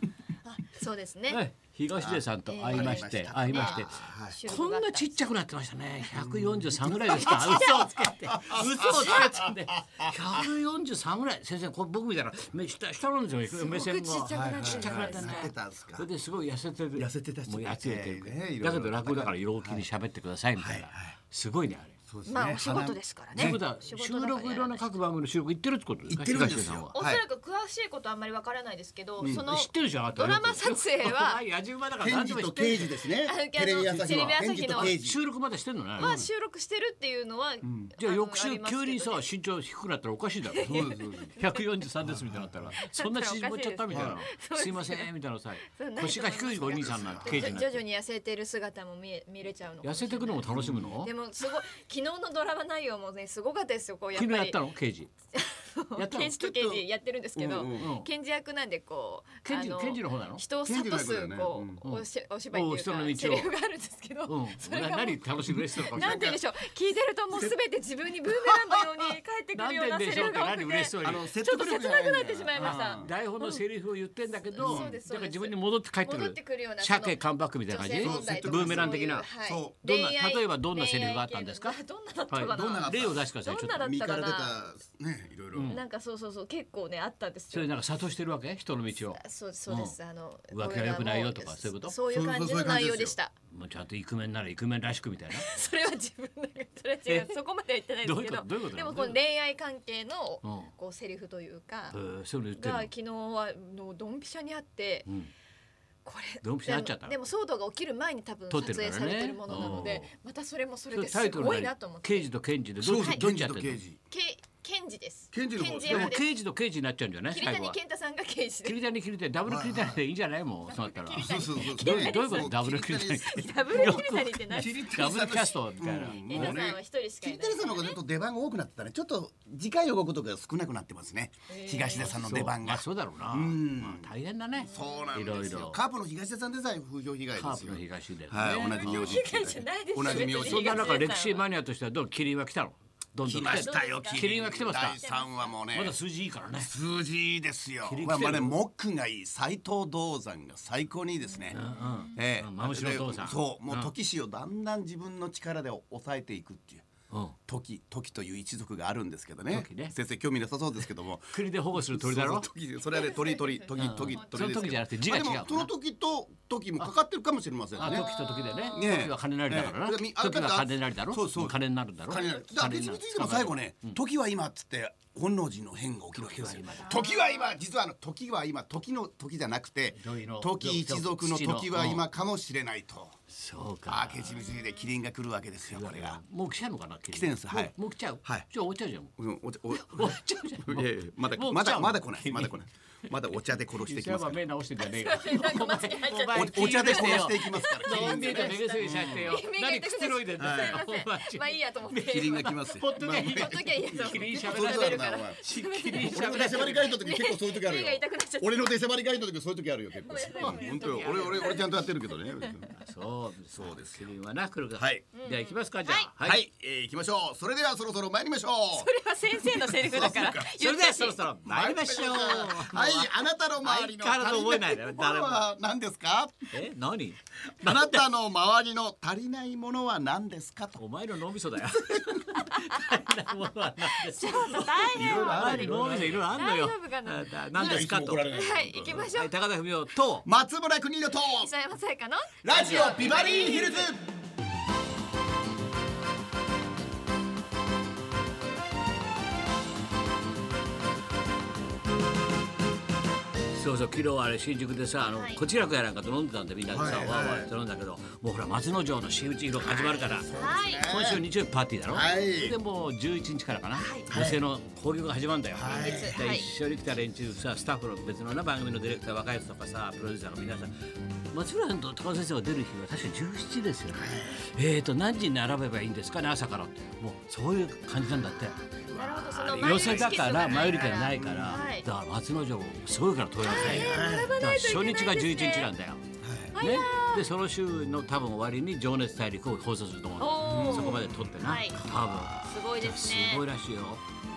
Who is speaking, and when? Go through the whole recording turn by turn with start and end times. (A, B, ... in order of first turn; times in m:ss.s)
0:00.4-0:01.4 A
0:01.3-0:22.0 B
0:02.0-0:04.4 C
0:02.5-0:05.2 A
0:06.1-0:10.4 C
0:07.1-0:08.2 A
0:13.5-0:15.5 A
0:14.3-0:16.1 C
0:17.0-0:19.8 C
0:20.6-0:21.2 C
0:22.1-0:23.6 C
0:22.2-0:24.8 A
0:23.3-0:26.9 B
0:26.1-0:27.2 C
0:26.9-0:31.4 A
0:29.2-0:29.5 C
0:29.2-0:32.9 B
0:32.0-0:35.2 C
0:33.1-0:34.9 A
0:33.8-0:36.1 B
0:36.0-0:39.2 A
0:36.0-0:36.3 C
0:37.6-0:37.9 C
0:38.0-0:40.8 B
0:40.5-0:41.6 A
0:40.6-0:41.4 C
0:41.4-0:47.8 B
0:42.0-0:42.7 C
0:42.8-0:45.1 A
0:43.9-0:44.2 C
0:45.7-0:54.6 A
0:46.8-0:47.6 C
0:49.8-0:51.1 B
0:50.5-0:50.9 C
0:54.1-0:55.1 B
0:55.3-1:13.6 A
0:56.0-0:56.8 B
0:57.3-0:57.9 C
0:57.8-0:58.1 B
0:59.4-1:00.4 B
1:00.6-1:01.8 C
1:01.8-1:03.5 B
1:04.3-1:06.3 B
1:05.8-1:06.4 C
1:08.3-1:09.0 C
1:09.5-1:11.2 B
1:11.0-1:13.1 C
1:12.6-1:19.3 B
1:14.5-1:24.6 A
1:14.6-1:14.9 C
1:18.0-1:19.8 C
1:19.8-1:21.8 B
1:22.3-1:23.8 B
1:22.5-1:23.2 C
1:23.8-1:25.8 C
1:25.5-1:25.8 B
1:25.7-1:27.7 A
1:27.5-1:29.9 B
1:29.0-1:33.3 A
1:30.5-1:32.0 B
1:32.1-1:33.2 C
1:33.5-1:35.5 B
1:35.3-1:42.0 A
1:37.0-1:37.4 B
1:38.0-1:39.2 B
1:40.4-1:40.7 B
1:41.9-1:42.9 B
1:42.6-1:45.1 A
1:46.0-1:52.3 A
1:46.4-1:47.1 B
1:48.5-1:50.1 B
1:50.9-1:53.8 B
1:52.8-1:54.0 C
1:52.9-1:53.2 A
1:54.1-1:56.3 A
1:55.3-1:56.2 C
1:55.8-1:57.8 B
1:57.3-1:58.8 A
1:58.6-2:06.6 B
1:59.5-2:00.0 C
2:00.7-2:02.5 A
2:01.2-2:21.0 C
2:03.2-2:04.8 A
2:06.2-2:08.0 A
2:11.5-2:12.1 A
2:12.0-2:15.8 B
2:14.6-2:15.2 A
2:17.3-2:25.0 B
2:18.8-2:21.4 A
2:23.2-2:26.0 C
2:23.4-2:25.6 A
2:25.7-2:26.7 B
2:26.6-2:31.6 C
2:27.8-2:28.6 B
2:31.3-2:32.1 A
2:31.5-2:33.9 B
2:32.2-2:36.9 C
2:37.1-2:37.4 B
2:37.5-2:48.1 C
2:39.5-2:39.9 B
2:41.3-2:42.5 B
2:42.9-2:44.8 A
2:43.8-2:45.7 B
2:47.8-2:49.1 A
2:47.8-2:54.0 B
2:48.7-3:03.2 C
2:56.1-2:57.0 B
2:56.7-2:57.6 A
2:59.9-3:02.0 B
3:03.3-3:04.4 B
3:03.9-3:06.2 C
3:05.7-3:09.1 B
3:07.1-3:08.5 C
3:09.2-3:14.4 C
3:09.7-3:12.5 B
3:13.3-3:26.9 B
3:14.8-3:28.8 A
3:16.3-3:19.3 C
3:20.4-3:20.8 C
3:21.9-3:32.7 C
3:30.0-3:32.7 A
3:30.1-3:31.6 B
3:32.7-3:36.4 B
3:33.5-3:34.1 C
3:34.7-3:35.0 C
3:35.1-3:36.1 A
3:36.2-3:40.5 C
3:38.7-3:41.3 A
3:40.4-3:45.5 B
3:41.4-3:46.4 C
3:46.5-3:48.1 B
3:47.6-3:50.8 C
3:50.8-4:00.2 B
3:51.7-3:52.2 C
3:53.8-3:59.3 A
3:54.9-3:56.3 C
3:57.5-3:59.1 C
4:00.2-4:01.5 C
4:01.3-4:03.9 A
4:02.4-4:04.0 C
4:02.5-4:03.1 B
4:13.5-4:20.3 B
4:15.0-4:15.4 A
4:16.7-4:17.5 C
4:19.6-4:21.2 C
4:20.3-4:20.9 A
4:20.8-4:46.0 B
4:21.9-4:22.6 C
4:23.7-4:24.1 A
4:24.1-4:24.4 C
4:25.5-4:26.2 C
4:25.6-4:26.5 A
4:33.9-4:34.4 C
4:38.0-4:41.8 A
4:39.8-4:40.2 C
4:41.1-4:41.6 C
4:43.4-4:45.7 A
4:43.4-4:44.4 C
4:46.2-4:46.6 C
4:46.5-4:47.2 A
4:46.6-4:54.0 B
4:50.2-4:53.5 A
4:50.4-4:51.3 C
4:51.8-4:52.3 C